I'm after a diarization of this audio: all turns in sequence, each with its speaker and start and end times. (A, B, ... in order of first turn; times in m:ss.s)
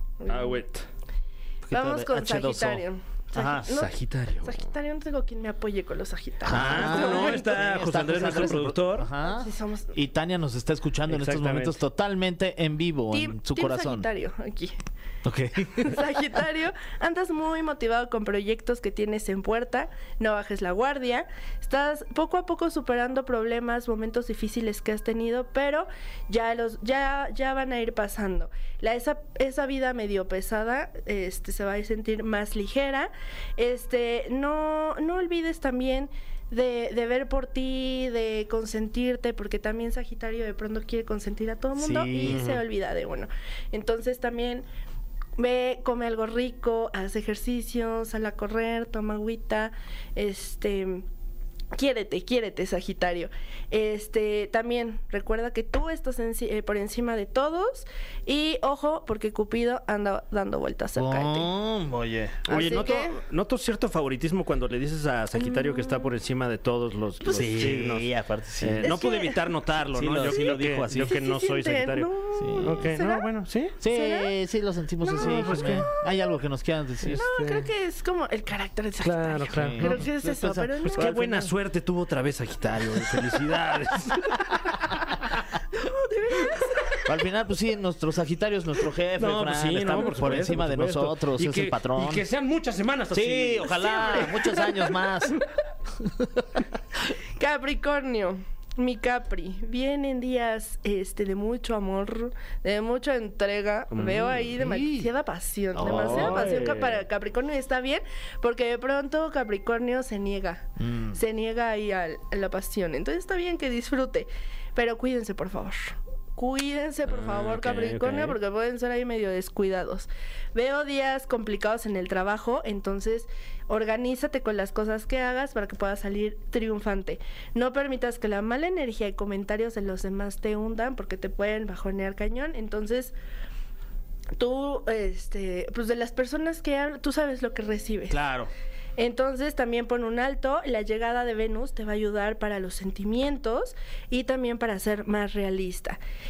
0:00.2-0:00.6 A
0:00.3-0:00.9 B
0:01.6-0:03.7 C
0:01.7-0:03.9 A
0:03.4-0:04.6 B
0:04.4-0:07.6 A
0:06.5-0:09.1 B
0:06.5-0:14.1 C
0:09.2-0:09.9 A
0:11.1-0:11.8 B
0:13.1-0:14.8 A
0:15.2-0:16.0 C
0:15.7-0:44.7 A
0:41.8-0:42.4 C
0:42.2-0:42.6 B
0:45.4-0:51.0 A
0:51.7-1:01.5 A
1:01.0-1:02.9 C
1:02.5-1:08.1 B
1:02.5-1:03.2 A
1:05.4-1:06.1 A
1:07.2-1:07.5 A
1:07.3-1:08.9 C
1:08.6-1:12.1 B
1:08.8-1:09.4 A
1:09.9-1:11.2 C
1:10.3-1:13.3 A
1:12.4-1:12.9 C
1:12.6-1:13.8 B
1:13.8-1:14.3 A
1:13.8-1:17.2 C
1:15.0-1:15.9 A
1:15.2-1:15.9 B
1:17.0-1:17.7 B
1:17.2-1:21.2 A
1:19.0-1:20.1 B
1:19.5-1:21.5 C
1:20.9-1:24.4 B
1:25.8-1:27.1 A
1:27.0-1:32.2 C
1:29.2-1:33.9 B
1:33.1-1:35.4 C
1:33.8-1:34.9 A
1:37.4-2:13.2 A
1:43.9-1:44.6 B
1:44.6-1:45.1 C
1:45.7-1:46.6 C
1:45.8-1:47.0 B
1:50.8-1:51.2 C
1:57.1-1:58.4 B
2:14.4-2:18.2 A
2:18.1-2:18.5 C
2:19.0-2:26.0 A